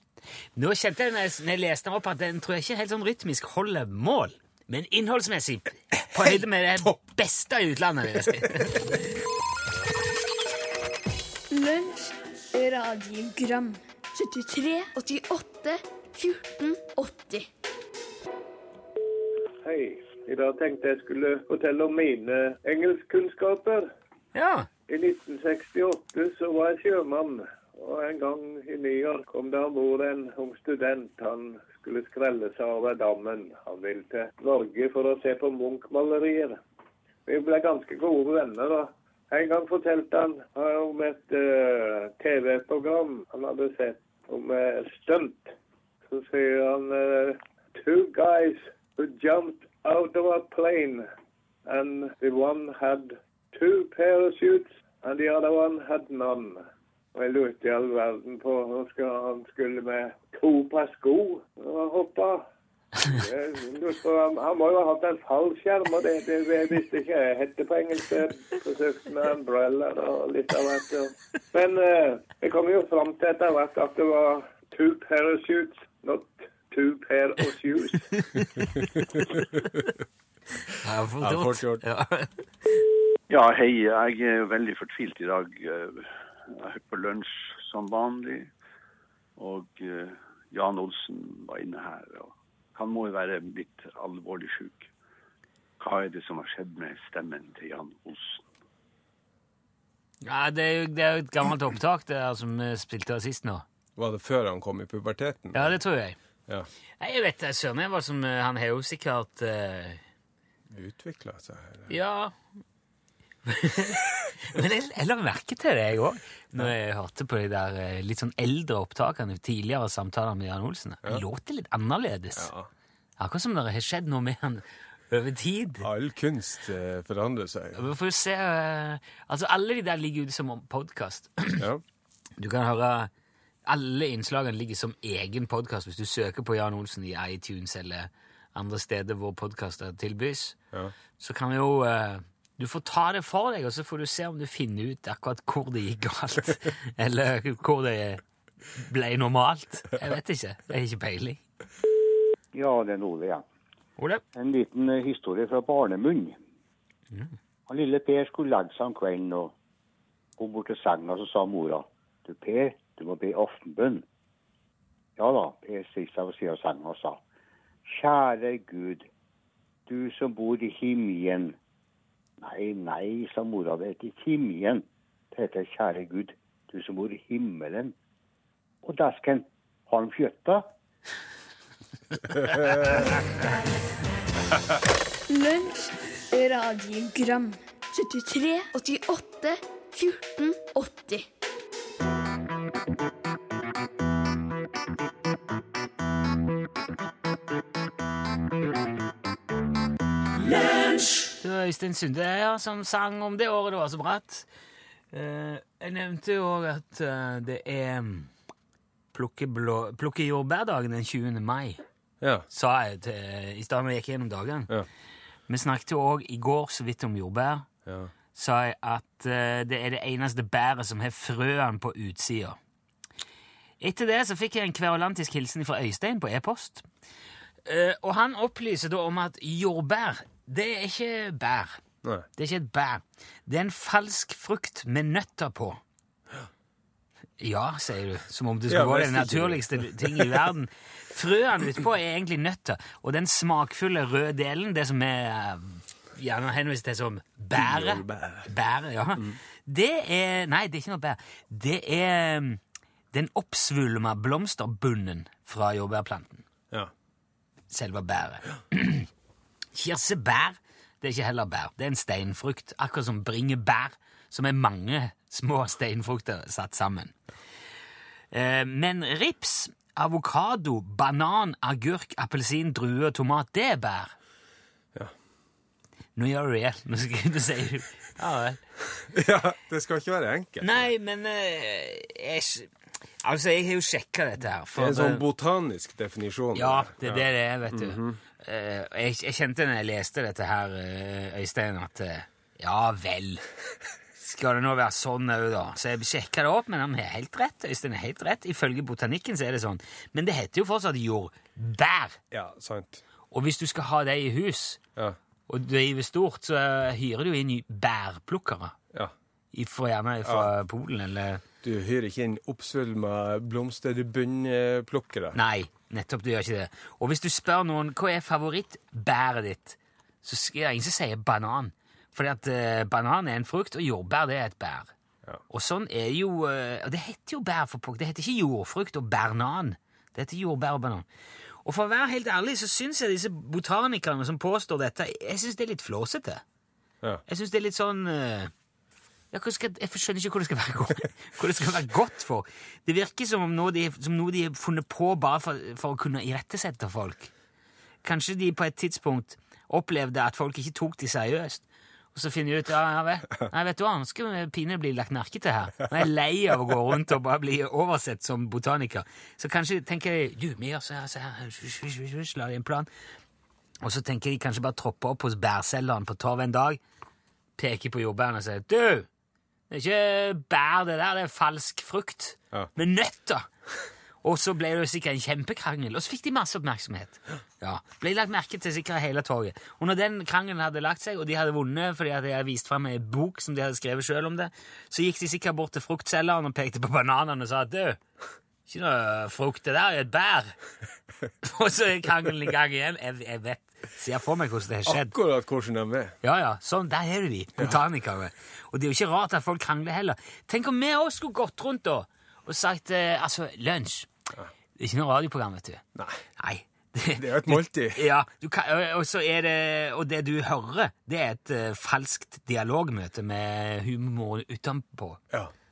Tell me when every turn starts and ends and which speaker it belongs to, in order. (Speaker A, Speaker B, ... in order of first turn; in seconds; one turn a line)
Speaker A: 0.6-9.0
Speaker B: 11.5-17.5
Speaker C: 19.6-23.9
Speaker A: 24.3-24.7
Speaker C: 24.9-36.6
Speaker C: 37.2-45.5
Speaker C: 46.1-51.0
Speaker C: 51.6-56.6
Speaker C: 57.1-62.4
Speaker C: 63.0-78.1
Speaker A: 78.2-79.4
Speaker A: 80.8-82.4
Speaker D: 81.2-81.8
Speaker E: 83.3-88.5
Speaker E: 89.3-94.9
Speaker E: 95.8-98.4
Speaker A: 100.2-103.6
Speaker D: 104.0-105.8
Speaker A: 105.5-106.2
Speaker A: 107.0-110.0
Speaker D: 110.7-111.9
Speaker A: 111.9-112.3
Speaker A: 113.5-122.5
Speaker D: 122.3-122.7
Speaker A: 123.2-125.9
Speaker D: 125.8-127.8
Speaker A: 127.7-131.7
Speaker D: 131.6-131.8
Speaker A: 132.4-133.1
Speaker A: 133.7-140.6
Speaker A: 141.2-148.2
Speaker A: 148.7-151.4
Speaker F: 152.5-153.4
Speaker A: 154.0-154.2
Speaker F: 154.3-156.4
Speaker F: 157.7-159.5
Speaker F: 160.4-164.0
Speaker F: 165.2-167.2
Speaker F: 167.8-169.1
Speaker F: 169.9-171.6
Speaker F: 172.4-177.9
Speaker F: 178.8-180.6
Speaker B: 185.3-191.2
Speaker A: 201.4-204.5
Speaker A: 205.1-208.3
Speaker A: 209.1-211.8
Speaker A: 212.5-214.7
Speaker A: 215.5-217.7
Speaker D: 217.8-218.1
Speaker A: 218.3-222.6
Speaker A: 223.8-226.9
Speaker A: 227.7-231.8
Speaker A: 232.4-235.8
Speaker A: 237.4-252.6
Speaker D: 238.7-240.5
Speaker D: 247.5-248.5
Speaker A: 253.1-256.4
Speaker A: 257.7-259.1
Speaker A: 259.7-267.1
Speaker A: 268.3-274.1
Speaker A: 276.1-278.6
Speaker D: 278.9-280.9
Speaker A: 280.6-282.7
Speaker A: 283.2-285.2
Speaker D: 284.8-288.2
Speaker A: 286.5-293.4
Speaker A: 294.2-302.2
Speaker D: 302.3-303.0
Speaker A: 303.3-304.8
Speaker A: 305.5-308.7
Speaker A: 309.5-311.4
Speaker D: 310.2-310.5
Speaker D: 311.6-315.4
Speaker A: 315.3-324.9
Speaker A: 325.5-331.0
Speaker A: 331.6-336.4
Speaker A: 337.3-338.5
Speaker A: 339.3-347.3
Speaker A: 348.0-362.9
Speaker A: 363.8-366.8
Speaker A: 367.6-369.1
Speaker A: 369.7-373.4
Speaker A: 374.2-388.0
Speaker A: 388.7-390.5
Speaker A: 391.4-395.1
Speaker D: 394.9-396.1
Speaker A: 396.2-404.1
Speaker A: 404.8-405.8
Speaker D: 405.9-406.2
Speaker A: 406.4-415.2
Speaker D: 407.1-408.0